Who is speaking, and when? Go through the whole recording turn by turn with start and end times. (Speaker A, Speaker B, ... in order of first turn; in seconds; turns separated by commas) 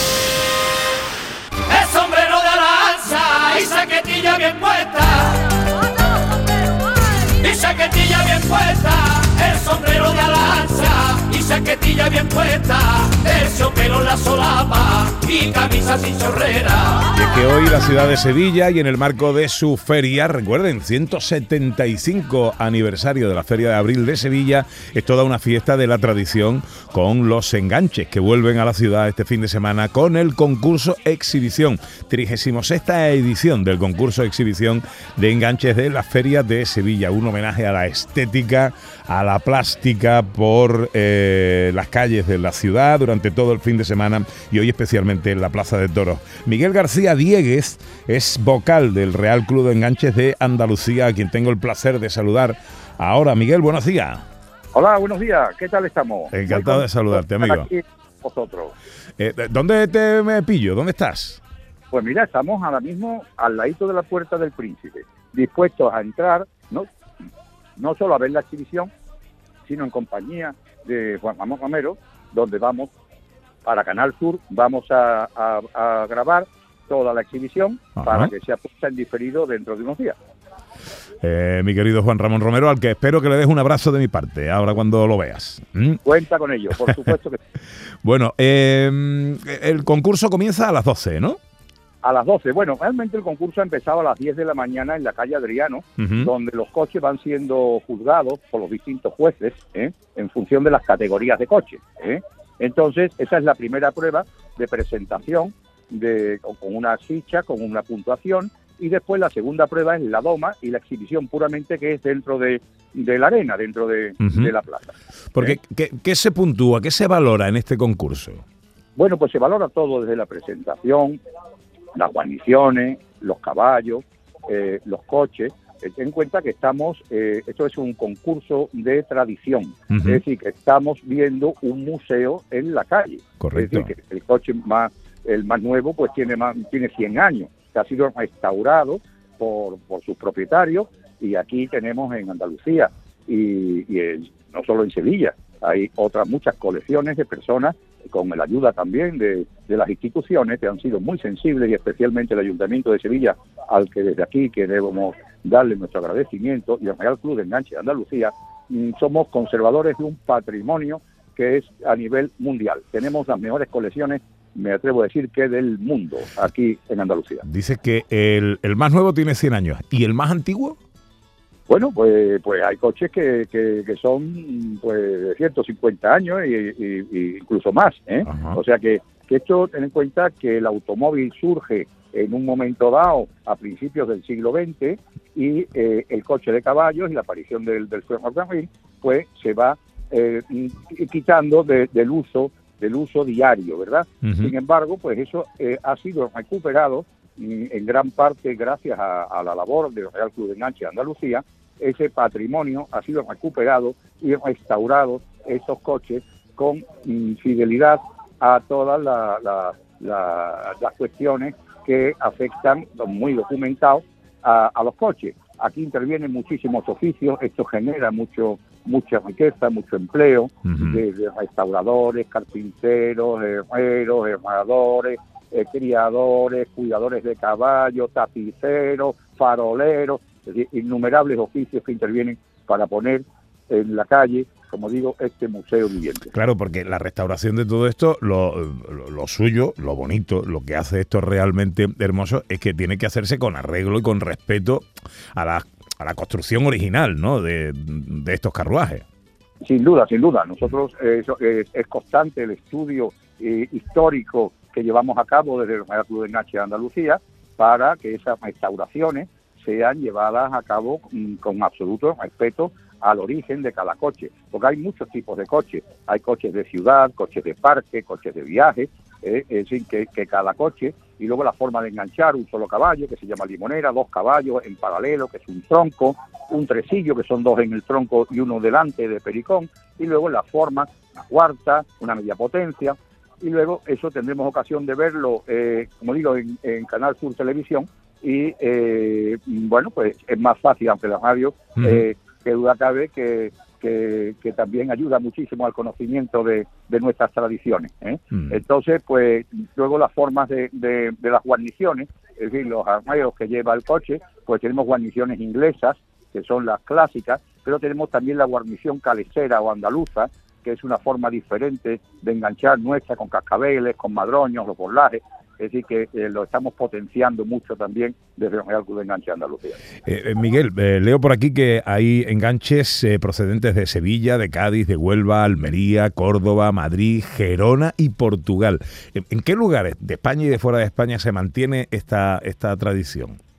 Speaker A: 1.7-5.4, Speaker A: 7.4-17.1, Speaker B: 17.1-54.2, Speaker C: 54.7-58.7, Speaker B: 56.3-57.7, Speaker B: 59.2-61.4, Speaker C: 61.9-66.9, Speaker C: 67.8-68.9, Speaker C: 69.7-72.9, Speaker C: 73.6-80.2, Speaker B: 78.0-78.3, Speaker B: 81.2-86.0, Speaker C: 86.0-87.4, Speaker B: 88.0-91.4, Speaker C: 92.0-115.5, Speaker B: 96.0-96.3, Speaker B: 114.2-114.5, Speaker B: 115.3-118.4, Speaker C: 119.0-121.2, Speaker C: 121.9-167.4, Speaker B: 129.9-130.2, Speaker B: 133.4-133.9, Speaker B: 167.4-170.8, Speaker C: 171.7-236.3, Speaker B: 178.3-178.6, Speaker B: 194.2-194.5, Speaker B: 220.7-221.0, Speaker B: 236.3-249.1, Speaker C: 249.6-319.8, Speaker B: 320.1-333.4